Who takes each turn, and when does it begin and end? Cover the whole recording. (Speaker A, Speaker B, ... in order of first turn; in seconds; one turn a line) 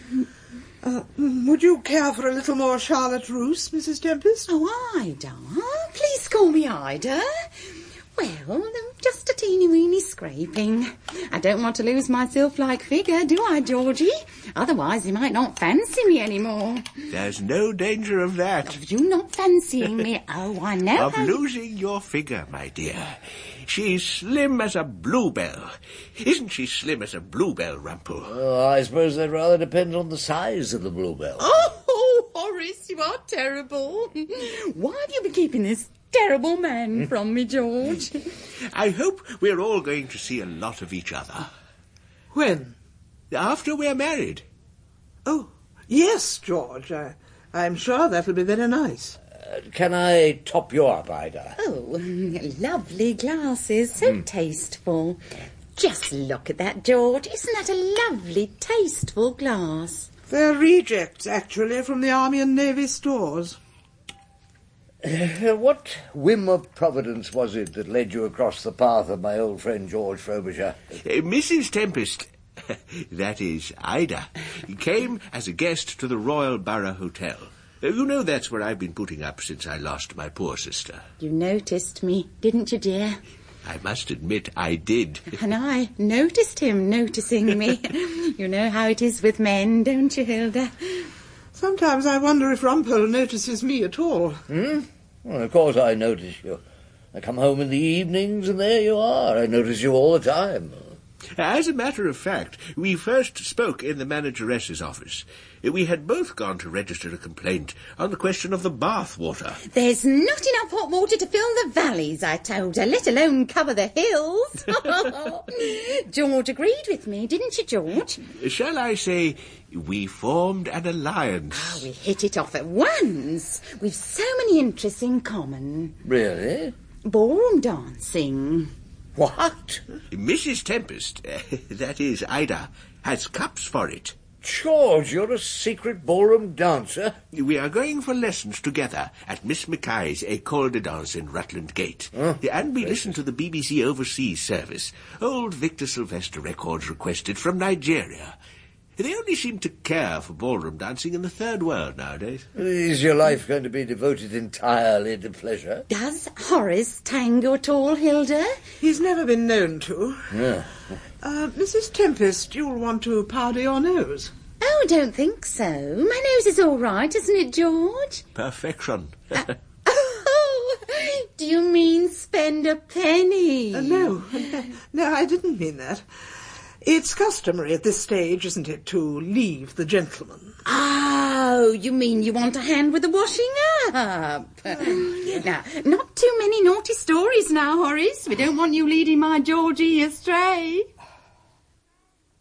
Speaker A: 0.8-4.5
Speaker B: 4.5-16.9
Speaker C: 17.1-18.8
Speaker B: 18.6-21.4
Speaker C: 20.9-28.4
Speaker D: 28.2-31.5
Speaker B: 31.4-38.2
Speaker C: 38.5-41.5
Speaker A: 42.3-42.7
Speaker C: 43.3-44.5
Speaker A: 45.2-49.2
Speaker D: 49.4-51.6
Speaker B: 51.6-55.2
Speaker B: 55.7-60.1
Speaker A: 60.3-63.6
Speaker D: 65.0-70.8
Speaker C: 71.0-81.1
Speaker B: 81.2-83.2
Speaker C: 83.6-85.3
Speaker B: 85.3-91.1
Speaker A: 91.5-94.4
Speaker D: 94.5-96.6
Speaker D: 97.1-101.0
Speaker C: 101.3-109.6
Speaker B: 109.7-118.2
Speaker C: 118.3-121.9
Speaker B: 121.5-126.0
Speaker D: 126.0-126.7
Speaker B: 127.0-128.7
Speaker D: 129.2-129.8
Speaker C: 130.1-134.2
Speaker D: 134.4-137.2
Speaker C: 137.3-148.4
Speaker C: 149.0-152.5
Speaker D: 152.5-155.8
Speaker B: 155.9-158.6
Speaker A: 158.8-160.3
Speaker D: 160.3-160.7
Speaker A: 161.2-164.3
Speaker B: 164.6-168.2
Speaker C: 168.3-169.5
Speaker B: 169.8-174.2
Speaker A: 173.7-176.0
Speaker A: 176.8-180.5
Speaker B: 180.6-190.9